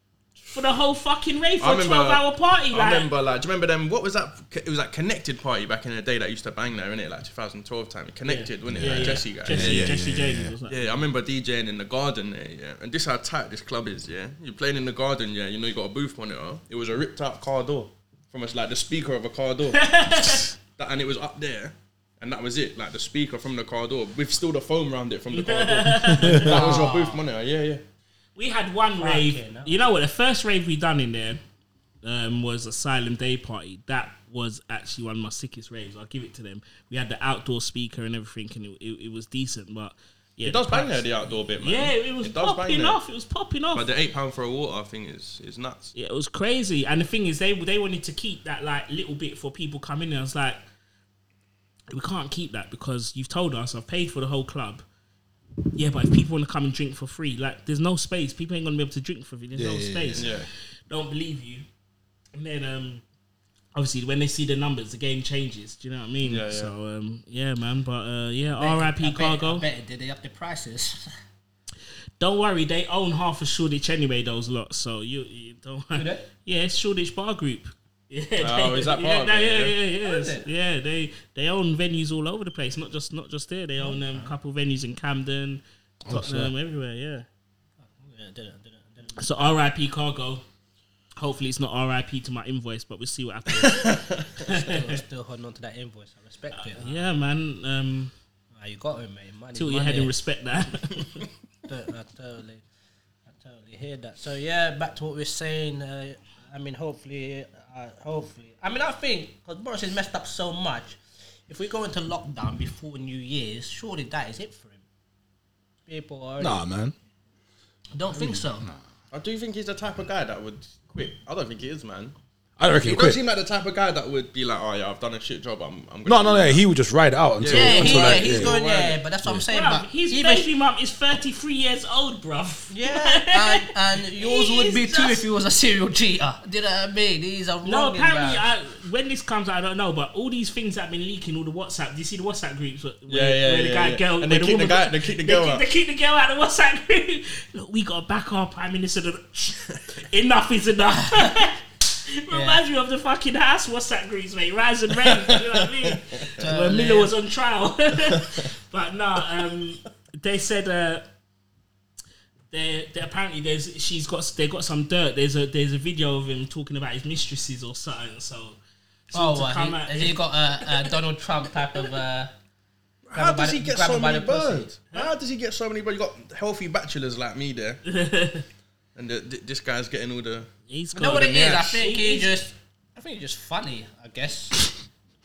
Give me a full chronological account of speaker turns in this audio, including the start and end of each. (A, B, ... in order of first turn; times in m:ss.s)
0:00.5-0:03.1 A
0:01.6-0:10.0 B
0:08.2-0:11.0 A
0:08.7-0:10.5 C
0:10.7-0:19.9 B
0:19.7-0:20.5 A
0:20.8-0:27.8 B
0:25.3-0:26.8 A
0:26.4-0:27.2 D
0:28.4-0:31.4 A
0:29.0-0:29.7 D
0:32.0-0:43.9 A
0:40.4-0:43.0 B
0:43.7-0:45.9 B
0:45.9-0:50.6 A
0:51.9-0:54.8 A
0:55.7-1:01.6 A
0:59.5-1:00.4 C
1:00.2-1:00.5 B
1:02.3-1:03.0 A
1:03.7-1:09.6 A
1:06.2-1:06.7 B
1:08.6-1:11.0 D
1:12.2-1:27.3 A
1:15.9-1:16.2 D
1:18.4-1:19.7 B
1:20.0-1:20.5 D
1:23.8-1:24.3 D
1:26.0-1:26.5 C
1:27.8-1:29.5 D
1:29.2-1:30.4 A
1:31.2-1:34.7 A
1:33.5-1:34.4 B
1:34.5-1:37.0 D
1:36.6-1:38.1 A
1:38.5-1:40.1 D
1:39.5-1:41.2 A
1:41.7-1:42.6 D
1:43.3-1:51.0 D
1:51.5-1:54.8 D
1:55.9-1:56.6 D
1:56.4-1:56.9 C
1:57.9-1:58.7 D
1:58.2-1:58.7 C
1:59.1-2:02.1 B
2:02.6-2:03.2 C
2:02.8-2:06.6 B
2:06.0-2:08.5 C
2:07.4-2:09.0 B
2:07.4-2:10.5 D
2:09.5-2:13.7 A
2:12.7-2:18.4 D
2:14.2-2:15.2 A
2:17.6-2:41.1 A
2:23.1-2:25.6 B
2:32.3-2:32.6 D
2:35.0-2:36.0 B
2:36.4-2:37.1 D
2:38.1-2:38.4 B
2:42.5-2:48.6 A
2:49.1-2:50.7 A
2:49.1-2:52.3 D
2:53.0-2:57.8 B
2:53.1-2:54.7 D
2:57.9-2:58.4 A
2:59.0-3:00.5 B
3:00.7-3:02.3 A
3:00.9-3:04.6 D
3:01.0-3:01.8 B